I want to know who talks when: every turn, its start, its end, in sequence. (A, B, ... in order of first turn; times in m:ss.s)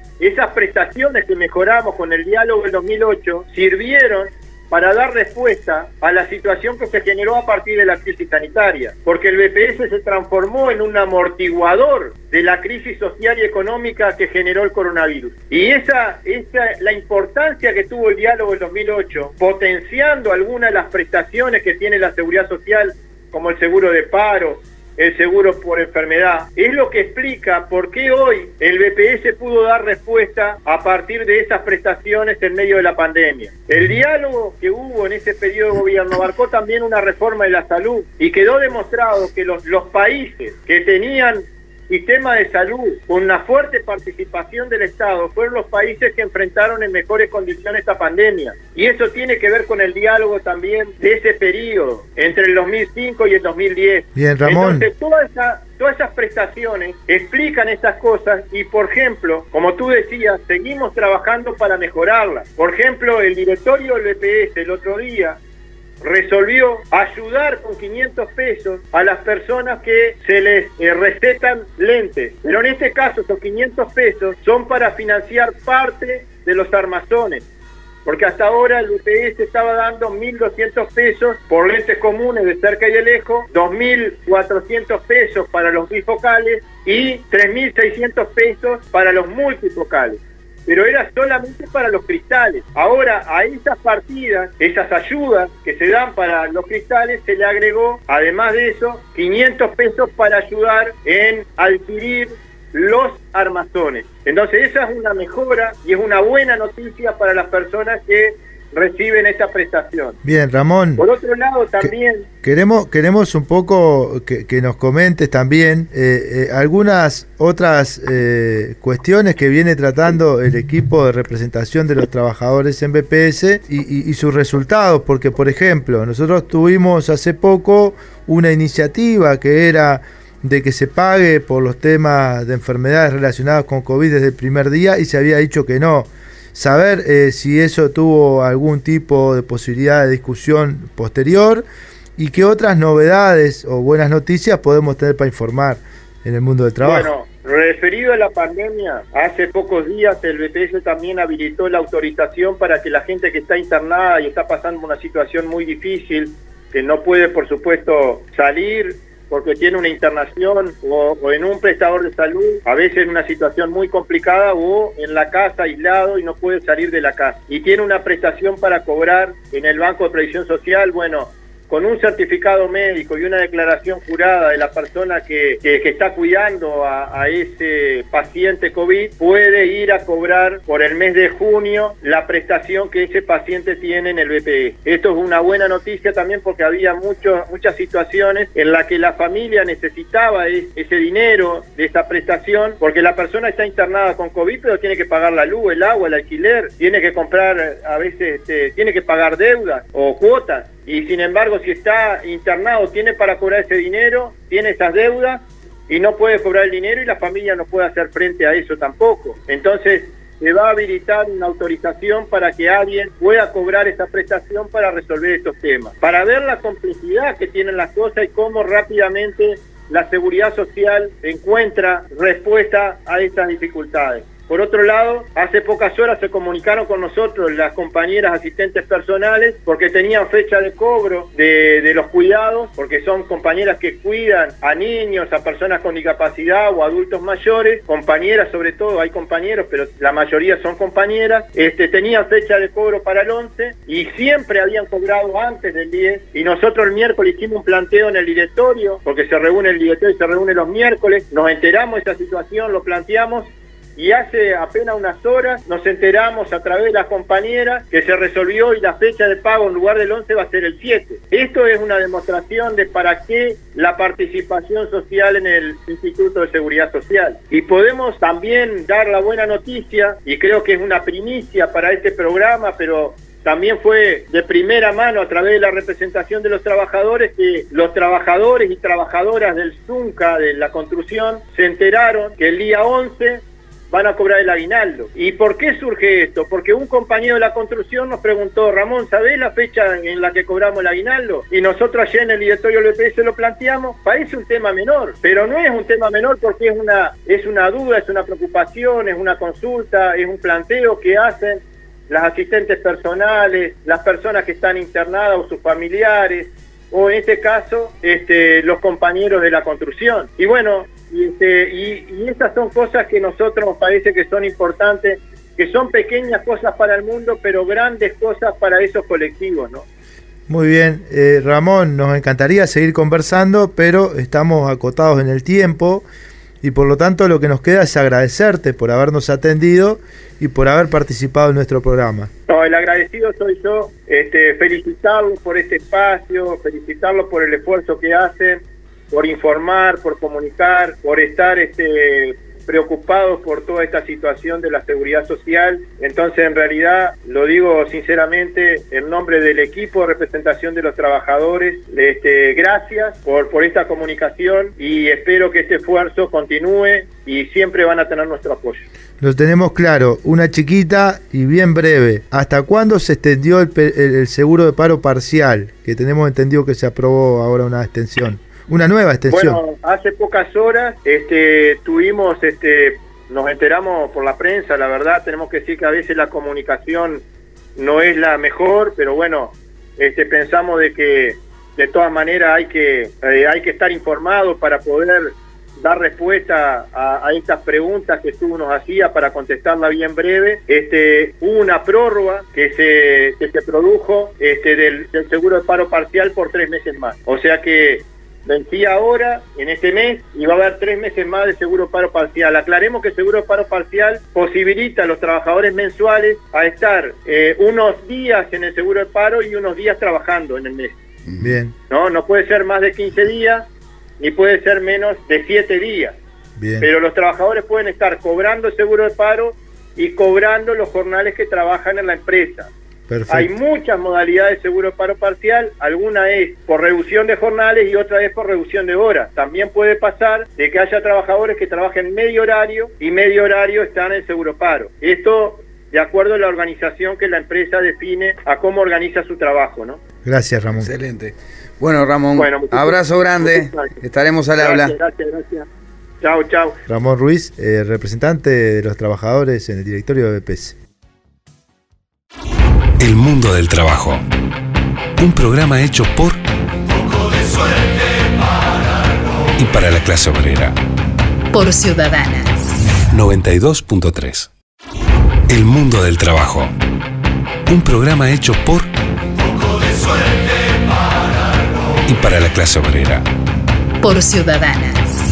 0:00.2-1:05.4 A
0:54.2-0:54.9 B
1:06.0-1:17.4 A
1:18.0-1:50.2 A
1:50.2-1:51.0 B
1:51.0-1:52.3 A
1:52.4-2:21.6 B
2:22.2-2:27.1 B
2:26.8-5:19.9 A
5:20.5-5:26.0 B
5:26.6-5:32.3 B
5:32.5-5:58.8 A
5:59.2-6:09.6 B
6:09.3-6:17.2 A
6:17.8-6:51.0 A
6:51.3-6:51.6 C
6:51.4-6:51.7 B
6:51.9-6:53.7 A
6:54.2-6:56.2 A
6:56.6-6:56.9 B
6:56.8-7:02.7 A
7:03.1-7:03.5 B
7:03.3-7:20.0 A
7:20.2-7:20.9 B
7:20.8-7:24.9 C
7:22.4-7:24.0 A
7:24.6-7:25.7 A
7:26.2-7:26.8 A
7:26.9-7:30.8 B
7:33.0-7:34.2 D
7:35.2-7:36.4 D
7:39.6-7:40.8 D
7:41.5-7:42.5 E
7:43.1-7:44.5 D
7:45.5-7:46.7 D
7:47.7-7:48.9 D
7:52.1-7:53.3 D
7:54.0-7:55.0 E